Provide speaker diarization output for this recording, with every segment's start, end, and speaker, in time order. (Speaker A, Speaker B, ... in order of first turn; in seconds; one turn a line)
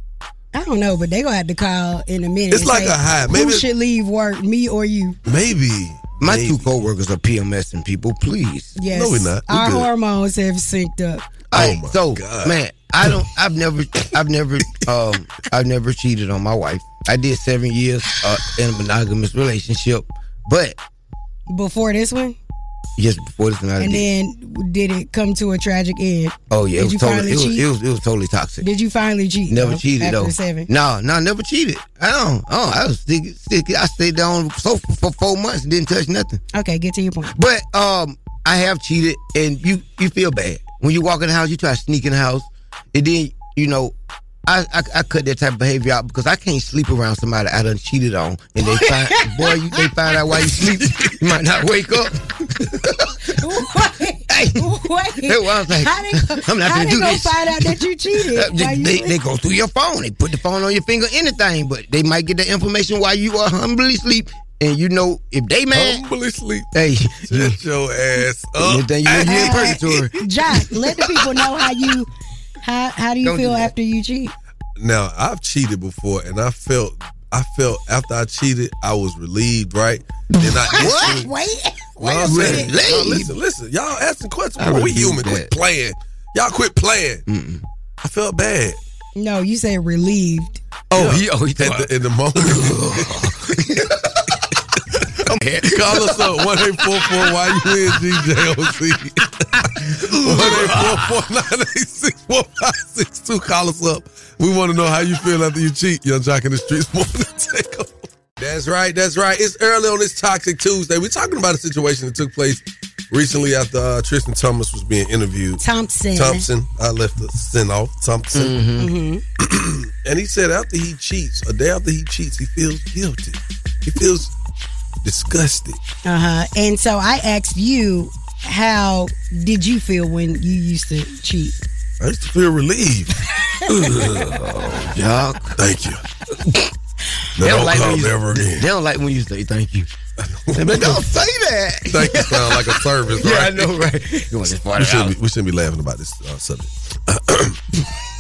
Speaker A: 0.5-5.2
Speaker B: 2.5-3.6
Speaker B: 5.3-6.7
Speaker C: 6.2-8.8
Speaker A: 8.8-11.3
Speaker B: 8.9-9.9
Speaker C: 11.5-20.8
Speaker B: 11.5-13.1
Speaker A: 21.5-22.4
Speaker C: 23.0-24.1
Speaker A: 23.8-27.7
Speaker C: 26.5-28.6
Speaker A: 28.6-30.7
Speaker C: 29.5-36.4
Speaker A: 36.5-37.4
Speaker C: 37.3-43.9
Speaker C: 44.5-53.2
Speaker A: 48.7-49.8
Speaker A: 53.4-59.2
Speaker C: 54.3-66.0
Speaker B: 65.7-66.7
Speaker C: 66.7-67.6
Speaker B: 67.2-70.1
Speaker C: 68.6-70.2
Speaker A: 69.2-72.1
Speaker A: 72.6-74.3
Speaker C: 73.2-73.7
Speaker B: 74.8-81.3
Speaker A: 80.7-82.8
Speaker C: 80.7-81.3
Speaker B: 82.0-87.2
Speaker C: 82.2-83.3
Speaker C: 84.6-85.5
Speaker C: 87.3-87.6
Speaker B: 88.0-88.8
Speaker A: 89.2-90.6
Speaker C: 90.9-93.9
Speaker B: 91.0-93.3
Speaker C: 95.3-96.6
Speaker B: 95.7-115.6
Speaker C: 100.0-101.1
Speaker A: 115.6-116.5
Speaker B: 116.1-118.6
Speaker C: 118.3-118.9
Speaker A: 118.8-119.2
Speaker B: 119.4-124.3
Speaker B: 125.0-125.8
Speaker A: 126.0-131.6
Speaker B: 132.0-133.1
Speaker B: 133.7-134.4
Speaker C: 134.1-135.6
Speaker B: 135.6-136.0
Speaker B: 137.4-138.7
Speaker C: 137.4-139.9
Speaker B: 140.2-141.0
Speaker C: 140.5-145.2
Speaker B: 141.9-143.7
Speaker B: 144.8-147.6